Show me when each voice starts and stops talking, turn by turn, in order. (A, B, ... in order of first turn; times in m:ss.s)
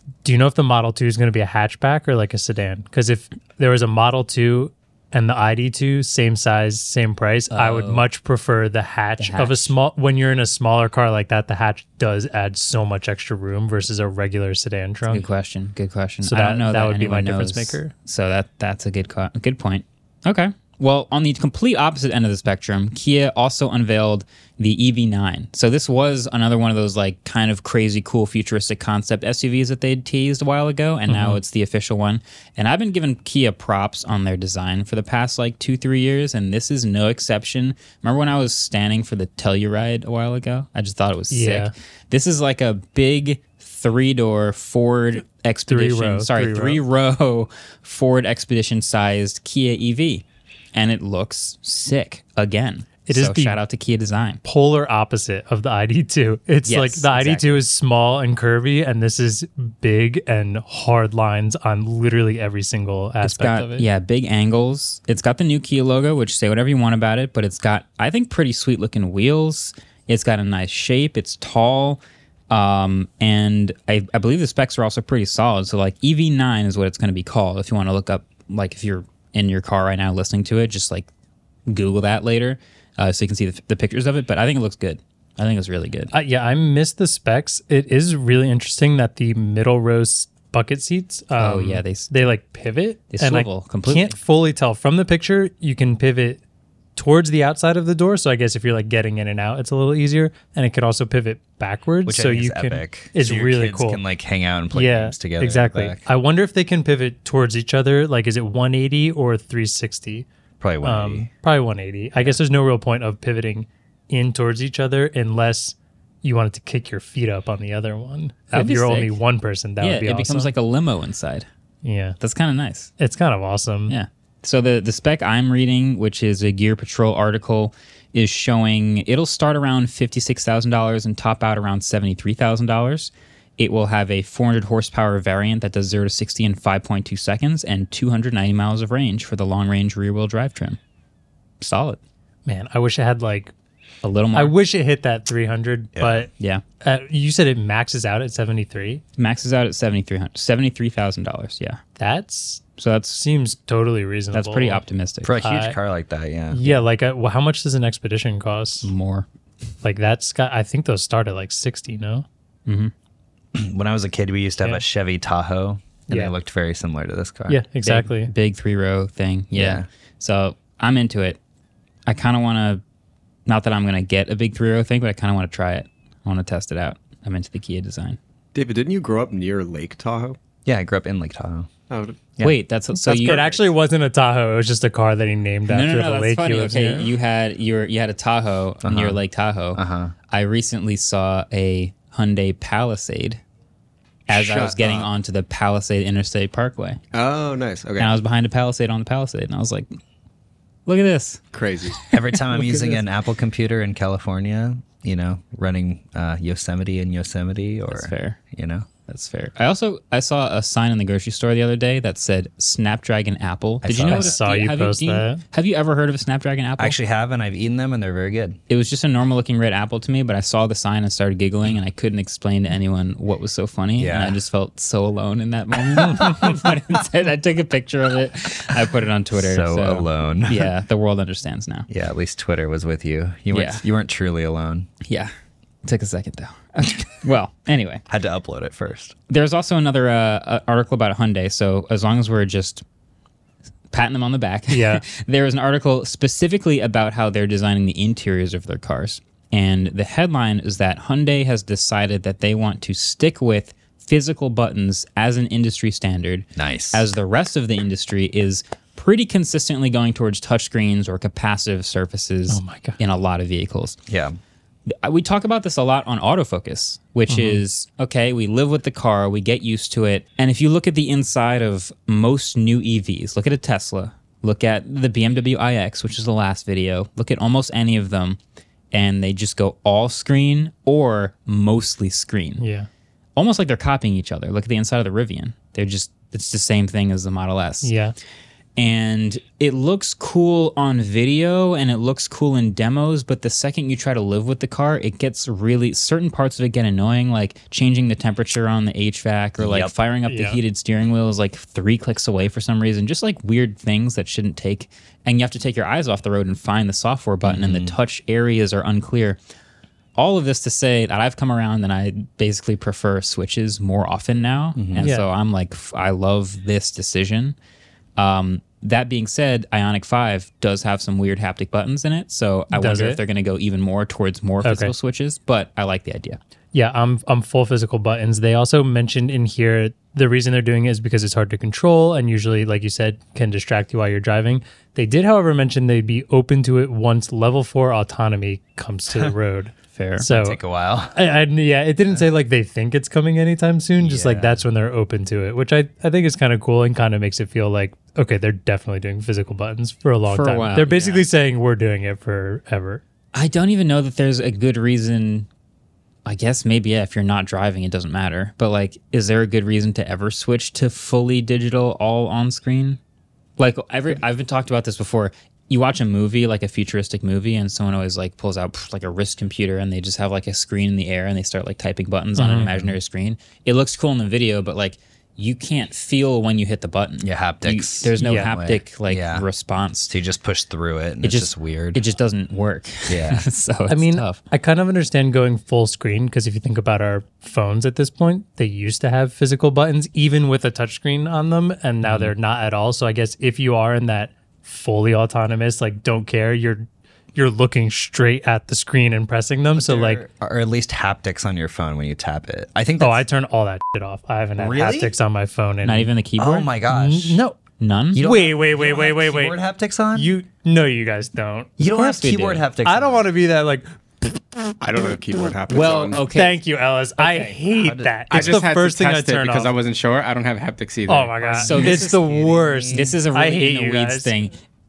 0:00.2-0:15.2 A
0:07.5-0:08.1 B
0:09.2-0:09.7 B
0:15.1-0:54.4 B
0:16.2-0:17.9 A
0:31.1-0:31.4 A
0:41.3-0:41.7 A
0:45.7-0:46.8 A
0:53.1-0:53.6 A
0:54.4-1:03.8 A
0:56.6-0:57.6 B
1:03.2-1:21.1 B
1:21.7-1:26.1 B
1:26.1-1:36.4 A
1:31.4-1:32.1 B
1:33.1-1:34.2 B
1:37.0-1:44.0 A
1:42.0-1:46.1 C
1:44.7-1:50.3 A
1:50.6-1:51.3 C
1:50.8-2:00.5 A
1:58.5-1:59.2 B
1:59.8-2:01.5 B
2:01.8-2:02.2 A
2:02.2-2:02.9 B
2:03.0-2:03.9 A
2:03.9-2:20.8 B
2:21.6-2:22.0 B
2:22.4-2:23.5 A
2:24.0-2:24.5 B
2:24.3-2:26.3 A
2:25.9-2:26.3 C
2:26.4-2:26.6 B
2:26.8-2:29.0 A
2:29.2-2:31.8 B
2:32.0-2:34.8 A
2:32.8-2:33.2 B
2:34.3-2:35.3 B
2:35.2-2:36.6 C
2:35.4-2:35.8 A
2:36.5-2:38.9 A
2:38.8-2:39.2 B
2:39.8-2:42.2 A
2:42.7-2:42.9 B
2:43.5-2:47.6 C
2:46.1-2:46.3 A
2:47.5-2:48.3 A
2:47.8-2:51.4 B
2:49.5-2:49.9 C
2:52.0-2:52.8 B
2:53.4-2:58.2 B
2:58.5-3:00.4 D
3:00.6-3:01.7 C
3:01.9-3:02.3 D
3:02.4-3:03.4 B
3:03.0-3:07.1 A
3:03.3-3:03.6 D
3:05.7-3:13.4 B
3:08.8-3:09.2 C
3:09.7-3:10.1 C
3:14.3-3:17.0 B
3:14.3-3:15.0 D
3:17.1-3:18.2 D
3:18.0-3:19.9 B
3:20.8-3:21.4 B
3:21.5-3:22.0 D
3:22.1-3:28.8 C
3:22.6-3:22.8 B
3:27.9-3:28.4 B
3:29.1-3:37.0 B
3:33.8-3:34.4 C
3:34.0-3:35.4 A
3:36.8-3:38.6 C
3:38.7-3:51.9 B
3:44.0-3:44.4 C
3:46.0-3:46.7 C
3:49.3-3:50.7 C
3:51.9-3:54.9 C
3:53.5-3:53.8 B
3:55.0-3:55.3 B
3:55.8-3:58.0 B
3:58.1-3:59.1 C
3:59.3-4:02.8 B
4:03.9-4:24.0 B
4:04.7-4:05.0 A
4:16.6-4:17.1 C
4:22.5-4:23.0 A
4:24.1-4:24.4 C
4:24.9-4:38.4 B
4:27.3-4:27.6 A
4:38.9-4:42.6 B
4:42.6-4:42.9 A
4:43.4-4:47.9 B
4:47.8-4:48.1 A
4:48.8-5:09.4 B
4:59.6-4:59.9 C
5:00.3-5:00.6 A
5:07.4-5:08.0 C
5:10.2-5:17.6 B
5:14.8-5:15.1 C
5:15.0-5:15.3 A
5:18.2-5:26.4 B
5:22.7-5:23.2 A
5:24.6-5:24.9 A
5:26.7-5:40.6 A
5:39.9-5:40.3 B
5:40.2-5:41.2 C
5:41.1-5:53.0 A
5:44.0-5:44.6 C
5:50.3-5:51.3 B
5:53.3-5:55.5 B
5:56.2-6:03.0 B
6:03.6-6:20.1 B
6:12.4-6:12.7 A
6:12.7-6:12.9 C
6:17.2-6:19.5 C
6:18.2-6:18.5 A
6:20.1-6:22.0 C
6:21.2-6:24.4 B
6:23.1-6:23.4 C
6:23.9-6:40.2 A
6:32.0-6:32.3 B
6:39.7-6:43.2 C
6:43.0-6:46.1 A
6:44.6-6:45.1 C
6:45.8-6:46.7 B
6:46.4-6:47.4 C
6:46.9-6:47.6 A
6:47.8-6:48.2 B
6:48.1-6:50.3 C
6:48.1-6:49.6 A
6:50.1-6:51.8 A
6:51.8-6:53.3 C
6:51.8-6:52.6 B
6:52.8-6:54.7 A
6:54.8-6:56.2 D
6:55.7-6:56.6 B
6:56.3-6:59.7 A
6:57.2-6:57.6 B
6:57.7-6:58.6 C
6:58.3-7:01.8 E
7:01.1-7:04.3 A
7:01.6-7:02.3 B
7:01.6-7:03.2 C
7:02.9-7:04.5 B